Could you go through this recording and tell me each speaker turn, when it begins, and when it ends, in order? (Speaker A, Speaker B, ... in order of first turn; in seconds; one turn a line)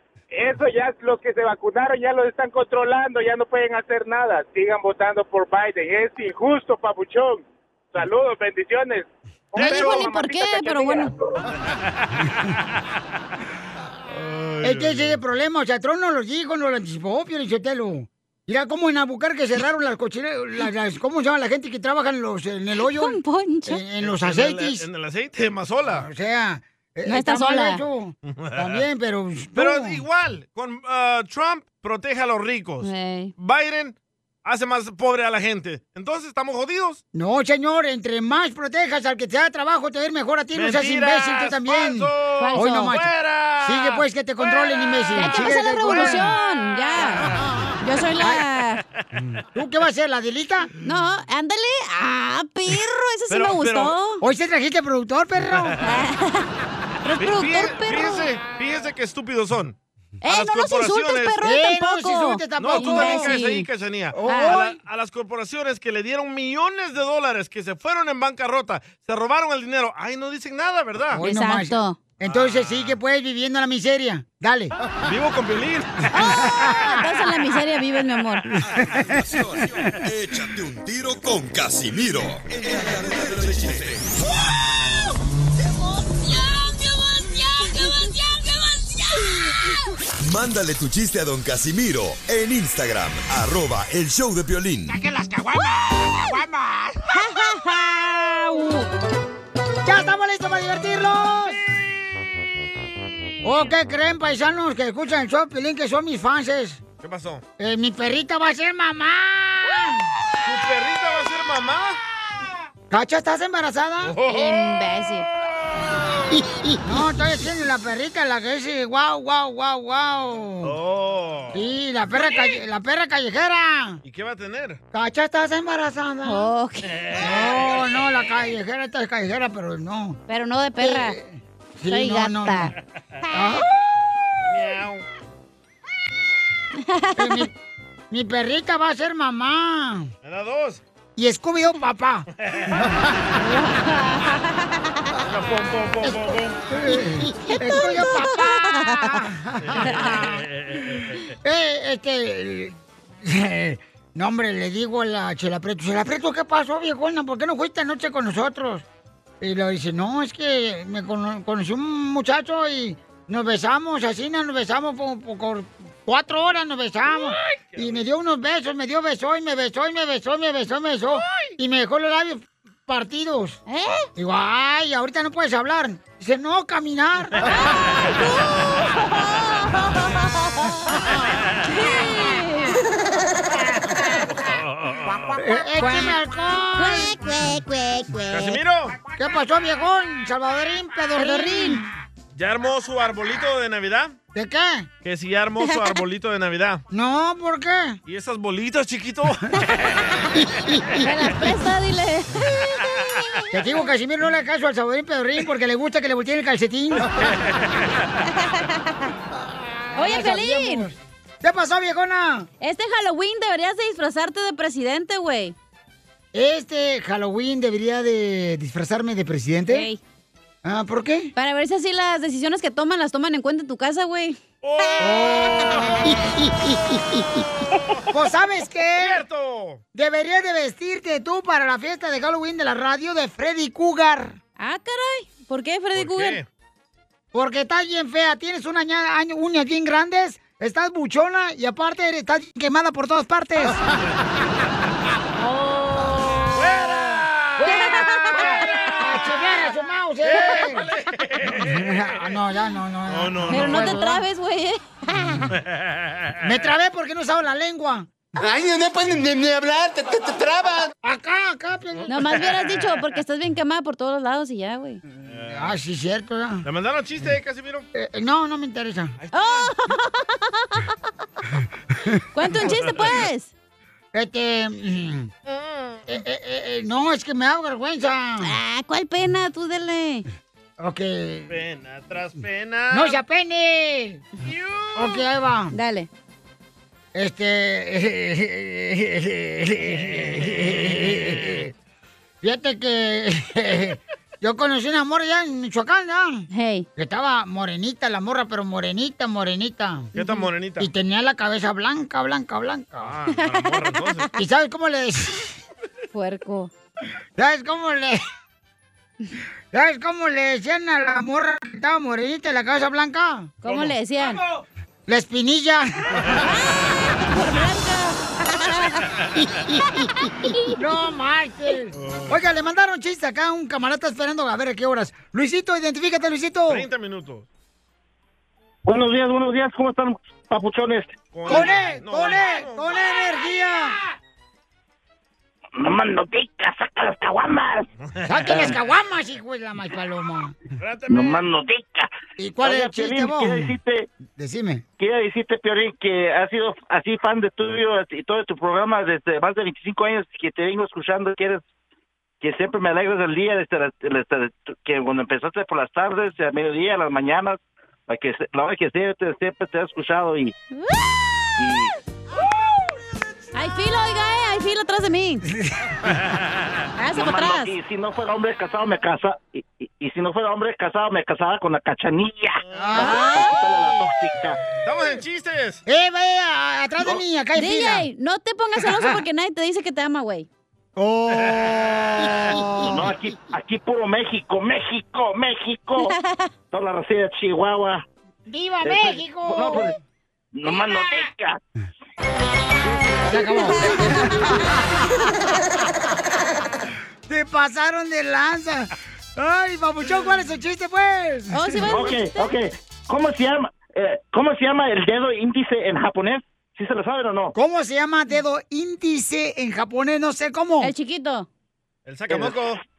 Speaker A: 0.3-11.3
Speaker B: 9.6-11.1
Speaker C: 9.6-10.0
Speaker C: 12.1-12.6
Speaker C: 14.1-15.2
Speaker D: 14.6-24.8
Speaker B: 22.8-23.8
Speaker C: 24.0-26.1
Speaker D: 25.9-30.0
Speaker B: 27.1-27.8
Speaker C: 28.3-28.8
Speaker C: 29.6-37.0
Speaker B: 32.8-33.3
Speaker D: 37.1-43.1
Speaker C: 40.5-46.1
Speaker B: 42.4-42.9
Speaker D: 43.6-46.3
Speaker B: 45.1-48.8
Speaker D: 49.5-50.7
Speaker B: 50.8-54.2
Speaker C: 53.3-53.9
Speaker D: 54.2-55.8
Speaker C: 55.6-56.0
Speaker B: 55.8-56.5
Speaker B: 57.0-58.3
Speaker C: 57.2-59.8
Speaker B: 60.2-63.7
Speaker C: 60.3-61.4
Speaker D: 61.4-63.4
Speaker C: 62.6-71.2
Speaker D: 64.1-64.8
Speaker B: 64.3-64.6
Speaker D: 71.1-74.7
Speaker B: 71.2-72.0
Speaker C: 72.2-73.0
Speaker C: 75.0-76.0
Speaker B: 76.1-78.5
Speaker D: 76.5-76.8
Speaker E: 78.6-84.1
Speaker D: 78.8-79.2
Speaker F: 85.8-89.4
Speaker E: 90.2-94.9
Speaker F: 94.9-97.0
Speaker B: 97.3-98.8
Speaker D: 99.8-101.6
Speaker D: 103.4-106.8
Speaker C: 107.0-107.4
Speaker D: 107.6-110.0
Speaker C: 110.4-112.0
Speaker D: 112.9-114.2
Speaker C: 114.0-114.8
Speaker B: 114.3-115.3
Speaker C: 115.8-116.7
Speaker D: 116.8-120.7
Speaker C: 120.6-121.6
Speaker D: 121.5-124.0
Speaker C: 124.0-124.8
Speaker D: 124.9-126.5
Speaker B: 126.2-126.9
Speaker C: 126.9-128.0
Speaker D: 127.2-130.2
Speaker B: 130.3-131.2
Speaker D: 130.8-132.7
Speaker B: 131.9-132.7
Speaker D: 133.3-133.7
Speaker C: 134.5-135.1
Speaker B: 136.8-137.5
Speaker D: 137.2-137.5
Speaker D: 138.1-140.1
Speaker C: 140.2-140.8
Speaker D: 141.2-143.0
Speaker C: 142.4-142.9
Speaker B: 143.4-144.9
Speaker C: 145.2-146.7
Speaker D: 146.7-150.4
Speaker B: 147.3-149.2
Speaker C: 149.6-151.2
Speaker D: 151.4-158.8
Speaker D: 159.4-173.6
Speaker C: 167.4-168.0
Speaker B: 173.7-174.1
Speaker D: 174.2-177.4
Speaker B: 177.5-181.1
Speaker C: 177.8-178.2
Speaker C: 181.2-181.5
Speaker B: 181.6-182.9
Speaker C: 184.3-185.3
Speaker F: 185.1-185.9
Speaker D: 185.4-187.3
Speaker B: 186.8-188.4
Speaker C: 188.3-188.9
Speaker D: 189.2-191.9
Speaker B: 191.2-191.8
Speaker C: 192.3-194.2
Speaker D: 194.3-194.9
Speaker C: 195.0-196.8
Speaker D: 196.9-198.0
Speaker C: 198.1-200.4
Speaker D: 200.3-201.1
Speaker B: 201.0-202.7
Speaker C: 202.8-203.3
Speaker D: 203.5-207.3
Speaker C: 207.2-207.8
Speaker B: 208.3-209.1
Speaker D: 209.3-212.5
Speaker B: 210.0-210.9
Speaker B: 212.6-215.6
Speaker D: 216.3-219.9
Speaker B: 219.7-220.0
Speaker D: 220.7-221.3
Speaker B: 221.4-224.4
Speaker C: 224.6-226.1
Speaker D: 225.0-227.4
Speaker D: 228.1-229.2
Speaker C: 229.0-229.8
Speaker D: 229.9-234.4
Speaker B: 234.6-236.4
Speaker C: 235.9-236.5
Speaker D: 237.3-243.8
Speaker B: 245.4-246.5
Speaker C: 246.5-249.2
Speaker D: 247.6-250.9
Speaker B: 247.7-248.9
Speaker C: 250.2-252.3
Speaker D: 251.5-254.2
Speaker C: 253.1-254.0
Speaker B: 253.5-254.8
Speaker C: 255.5-256.5
Speaker D: 256.4-258.1
Speaker D: 261.0-262.1
Speaker B: 262.1-265.0
Speaker C: 262.4-263.0
Speaker C: 265.3-265.8
Speaker D: 265.5-266.6
Speaker C: 266.6-267.9
Speaker D: 267.9-269.1
Speaker C: 269.2-269.7
Speaker B: 269.3-270.9
Speaker B: 272.3-273.5
Speaker C: 272.6-273.2
Speaker D: 274.1-275.3
Speaker C: 275.5-276.1
Speaker D: 276.1-278.5
Speaker B: 278.4-280.2
Speaker D: 280.8-281.5
Speaker C: 281.5-283.2
Speaker D: 282.9-284.2
Speaker C: 284.4-285.2
Speaker D: 284.9-285.7
Speaker B: 285.7-286.1
Speaker D: 287.1-291.7
Speaker C: 290.1-291.6
Speaker D: 292.4-300.1
Speaker B: 296.5-296.9
Speaker C: 300.1-300.9
Speaker B: 300.2-300.5
Speaker D: 300.8-303.1
Speaker C: 303.0-304.3
Speaker B: 303.4-304.3
Speaker D: 304.4-305.5
Speaker B: 306.1-306.7
Speaker D: 307.4-308.2
Speaker D: 309.7-313.5
Speaker B: 313.6-314.4
Speaker C: 313.6-313.9
Speaker D: 315.1-316.1
Speaker B: 316.4-319.1
Speaker D: 319.4-326.9
Speaker C: 322.0-322.4
Speaker C: 326.7-327.5
Speaker G: 328.9-331.2
Speaker C: 331.3-333.0
Speaker D: 331.5-334.0
Speaker G: 335.8-337.9
Speaker C: 338.1-338.8
Speaker D: 338.3-340.6
Speaker C: 340.8-341.5
Speaker G: 341.1-342.1
Speaker D: 342.4-343.7
Speaker G: 342.6-344.1
Speaker D: 344.4-344.8
Speaker G: 345.0-351.6
Speaker G: 352.4-360.6
Speaker B: 360.7-361.1
Speaker G: 361.6-361.9
Speaker B: 363.5-365.4
Speaker D: 365.5-365.9
Speaker C: 366.1-366.9
Speaker B: 367.0-367.7
Speaker G: 367.1-372.6
Speaker C: 372.7-373.1
Speaker D: 372.7-373.5
Speaker B: 372.9-373.8
Speaker G: 373.2-374.6
Speaker C: 374.8-375.8
Speaker D: 375.9-378.1
Speaker B: 377.6-380.5
Speaker D: 378.8-379.2
Speaker D: 381.0-383.1
Speaker C: 381.5-382.3
Speaker G: 382.8-386.1
Speaker B: 386.0-386.5
Speaker G: 386.7-388.0
Speaker D: 388.5-390.0
Speaker G: 388.8-390.0
Speaker G: 390.5-391.6
Speaker B: 392.9-394.8
Speaker D: 393.3-395.1
Speaker D: 397.3-401.9
Speaker B: 401.5-402.5
Speaker G: 401.9-407.6
Speaker D: 407.6-410.9
Speaker B: 410.8-411.5
Speaker C: 412.1-412.8
Speaker G: 412.3-412.6